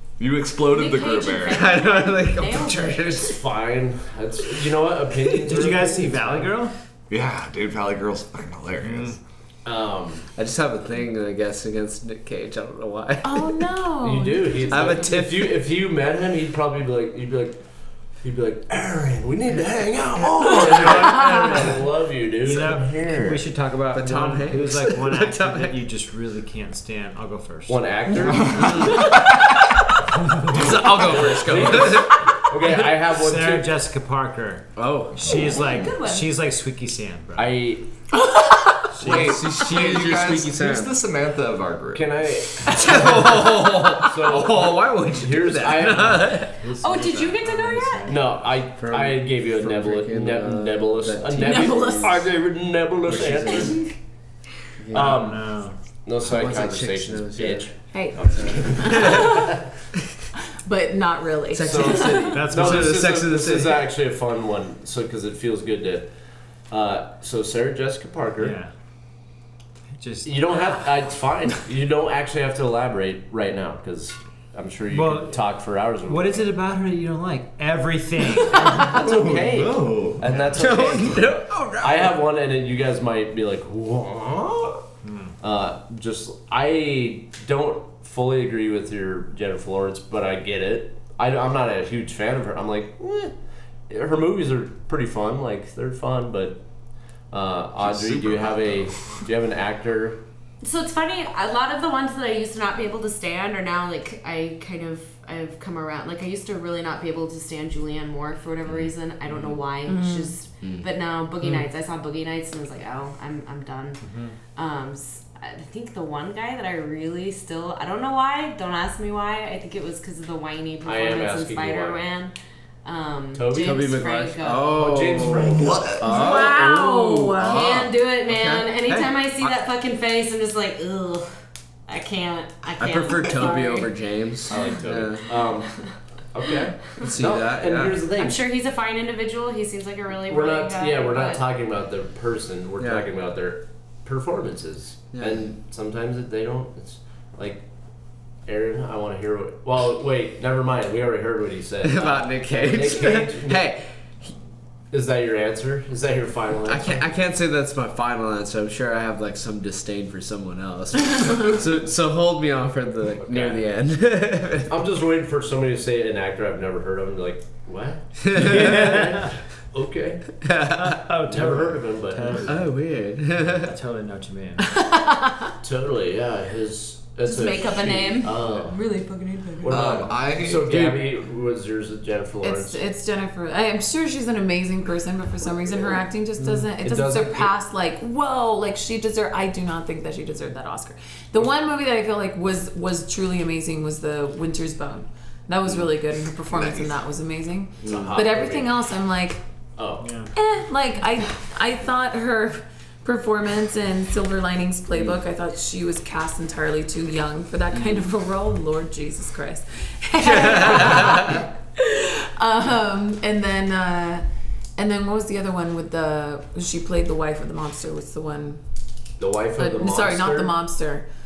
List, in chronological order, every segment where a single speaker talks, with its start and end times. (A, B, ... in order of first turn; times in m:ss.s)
0:00.2-0:01.7 A
0:00.7-0:03.2 B
0:01.5-0:03.4 C
0:03.2-0:06.5 D
0:05.4-0:06.7 E
0:07.1-0:09.2 A
0:08.8-0:09.2 E
0:09.6-0:10.3 D
0:10.4-0:13.6 C
0:13.2-0:15.1 F
0:14.0-0:17.6 D
0:14.7-0:15.6 C
0:18.2-0:23.4 D
0:20.2-0:21.2 C
0:22.4-0:28.1 E
0:23.8-0:25.8 C
0:27.7-0:29.0 D
0:28.4-0:29.7 C
0:30.2-0:30.7 E
0:30.4-0:32.3 C
0:30.6-0:33.7 D
0:33.1-0:37.6 E
0:34.8-0:35.6 C
0:35.6-0:36.3 B
0:37.4-0:37.9 D
0:38.8-0:41.0 C
0:39.0-0:39.4 E
0:39.0-0:42.1 A
0:41.9-0:46.3 D
0:42.7-0:46.6 C
0:45.9-0:48.3 E
0:46.8-0:48.2 B
0:48.0-0:53.9 D
0:48.8-0:52.2 C
0:51.4-0:52.3 F
0:53.1-0:53.8 C
0:54.8-0:55.3 C
0:54.9-0:59.7 D
0:54.9-0:55.8 E
0:56.2-0:57.7 C
0:57.9-0:59.6 F
0:58.8-0:59.4 C
1:00.6-1:02.4 F
1:01.5-1:03.9 C
1:01.6-1:06.1 D
1:02.3-1:03.1 E
1:06.7-1:08.6 D
1:08.4-1:08.7 E
1:10.0-1:10.3 E
1:10.2-1:16.5 D
1:14.9-1:15.4 E
1:16.0-1:19.1 E
1:18.5-1:24.8 D
1:19.0-1:20.3 A
1:20.5-1:22.2 C
1:25.0-1:25.3 E
1:25.4-1:33.3 D
1:33.9-1:36.6 D
1:37.3-1:40.2 D
1:37.8-1:39.1 A
1:40.6-1:54.0 B
1:49.9-1:50.3 F
1:50.6-1:50.9 C
1:54.0-1:54.4 E
1:54.6-2:04.8 B
2:00.8-2:02.0 D
2:03.3-2:06.0 D
2:03.6-2:09.5 C
2:05.5-2:06.5 A
2:06.0-2:07.7 F
2:06.2-2:06.5 B
2:07.4-2:11.3 B
2:11.9-2:13.9 B
2:12.8-2:15.3 C
2:14.5-2:15.7 D
2:16.3-2:18.4 D
2:17.0-2:18.0 C
2:18.2-2:21.4 B
2:20.3-2:27.6 D
2:22.8-2:23.0 C
2:25.1-2:25.4 C
2:28.4-2:33.7 D
2:31.8-2:34.3 C
2:34.9-2:37.0 D
2:36.7-2:44.7 C
2:43.2-2:43.7 D
2:44.7-2:50.3 D
2:48.2-2:49.1 C
2:48.4-2:49.3 E
2:50.4-2:51.0 C
2:50.7-2:52.7 E
2:51.3-2:52.5 D
2:52.4-2:53.7 C
2:53.5-2:54.8 E
2:54.6-2:55.5 F
2:55.6-2:58.7 D
2:57.3-2:59.9 B
2:59.6-3:02.8 D
2:59.7-3:01.0 A
3:02.4-3:19.4 F
3:06.8-3:07.5 D
3:16.5-3:17.0 A
3:17.8-3:18.2 C
3:17.9-3:18.7 D
3:19.8-3:20.1 D
3:20.0-3:20.3 E
3:20.3-3:34.2 F
3:30.2-3:31.4 C
3:34.8-3:38.6 F
3:39.2-3:40.6 D
3:39.6-3:41.0 F